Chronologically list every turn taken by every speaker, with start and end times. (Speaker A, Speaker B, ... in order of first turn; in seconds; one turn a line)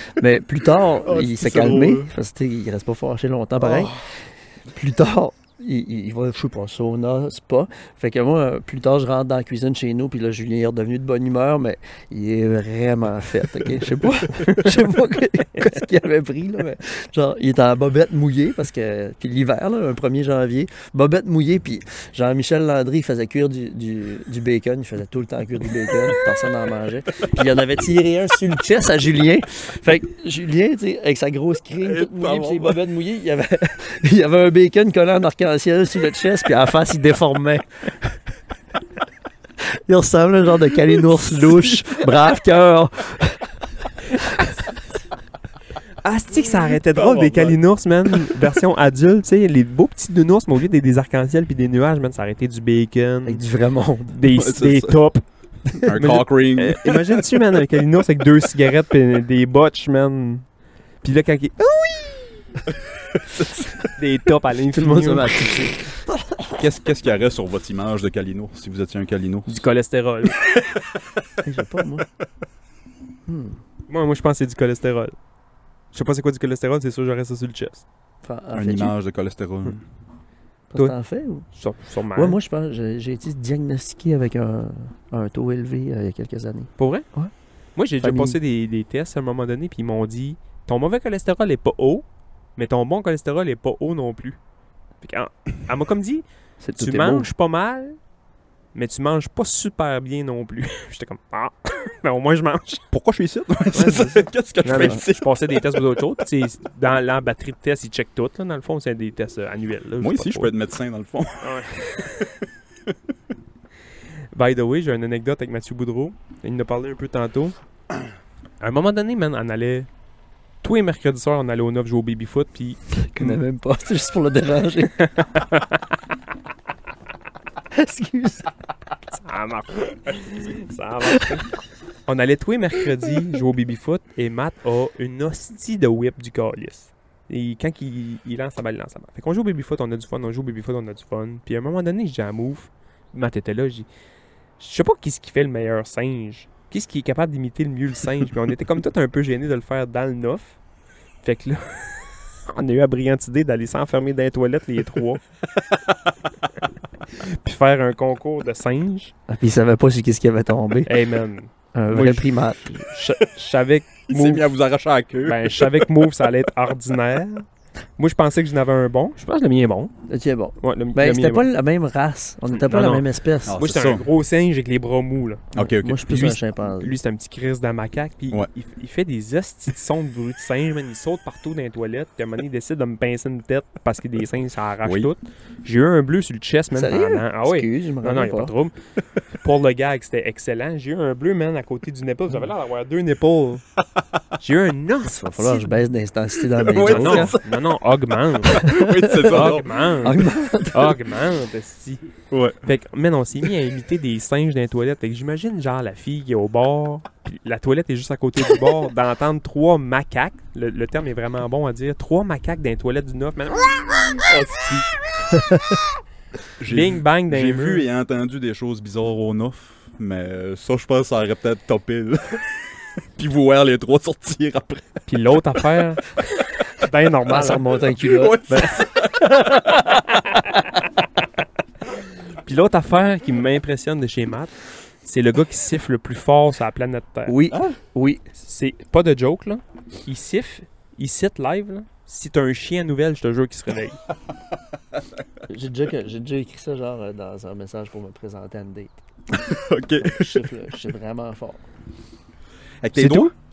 Speaker A: 0.2-4.0
Speaker B: 1.0-2.1
Speaker B: 3.6-4.1
Speaker A: 4.7-38.1
Speaker C: 14.4-14.8
Speaker B: 31.8-32.8
Speaker A: 39.9-43.4
Speaker B: 41.5-41.8
Speaker C: 46.0-53.4
Speaker B: 46.9-47.6
Speaker A: 53.2-54.2
Speaker C: 54.1-55.2
Speaker B: 54.2-55.0
Speaker B: 55.9-57.2
Speaker C: 56.0-60.4
Speaker C: 61.0-62.5
Speaker B: 63.1-63.7
Speaker C: 64.0-65.7
Speaker A: 64.7-66.5
Speaker B: 66.6-69.7
Speaker C: 69.5-70.6
Speaker A: 71.4-72.0
Speaker A: 73.3-73.6
Speaker C: 73.9-75.2
Speaker C: 75.9-77.8
Speaker A: 78.2-78.9
Speaker B: 78.5-79.8
Speaker A: 80.7-81.5
Speaker C: 81.5-82.4
Speaker A: 82.2-87.3
Speaker C: 86.8-87.1
Speaker C: 87.8-92.0
Speaker A: 88.0-88.4
Speaker C: 92.6-94.4
Speaker C: 95.0-96.2
Speaker A: 96.6-97.3
Speaker C: 96.8-98.0
Speaker C: 98.8-102.8
Speaker B: 102.9-106.0
Speaker C: 103.7-110.5
Speaker B: 110.0-111.7
Speaker C: 111.4-112.3
Speaker C: 114.3-117.6
Speaker C: 118.6-119.9
Speaker C: 120.6-123.4
Speaker A: 123.0-125.1
Speaker C: 125.0-125.8
Speaker A: 127.7-128.5
Speaker C: 129.2-131.5
Speaker C: 132.1-143.9
Speaker C: 144.6-150.6
Speaker C: 151.2-155.2
Speaker C: 157.1-159.1
Speaker A: 159.3-160.9
Speaker C: 160.9-164.5
Speaker A: 161.7-162.9
Speaker B: 164.1-166.1
Speaker C: 165.2-167.5
Speaker C: 168.0-169.9
Speaker A: 170.1-173.6
Speaker C: 170.6-171.5
Speaker C: 172.5-175.4
Speaker B: 173.5-174.1
Speaker B: 175.5-176.4
Speaker A: 175.6-176.9
Speaker C: 176.1-188.7
Speaker B: 184.8-185.1
Speaker A: 186.8-188.5
Speaker C: 189.3-193.6
Speaker C: 194.4-195.8
Speaker A: 195.0-197.4
Speaker B: 196.6-197.6
Speaker C: 196.8-198.7
Speaker B: 198.4-199.9
Speaker A: 198.6-201.0
Speaker C: 199.2-202.0
Speaker B: 202.3-202.6
Speaker C: 202.6-214.3
Speaker B: 214.3-214.8
Speaker A: 215.3-215.8
Speaker B: 216.6-222.6
Speaker C: 216.7-217.9
Speaker B: 223.2-225.0
Speaker C: 225.1-227.8
Speaker A: 227.3-230.5
Speaker B: 228.0-229.6
Speaker C: 228.5-228.8
Speaker C: 232.4-234.5
Speaker C: 235.0-237.4
Speaker A: 237.3-238.2
Speaker C: 238.3-244.0
Speaker A: 245.5-249.0
Speaker B: 249.3-250.5
Speaker A: 250.0-251.6
Speaker B: 252.8-253.3
Speaker C: 252.9-253.3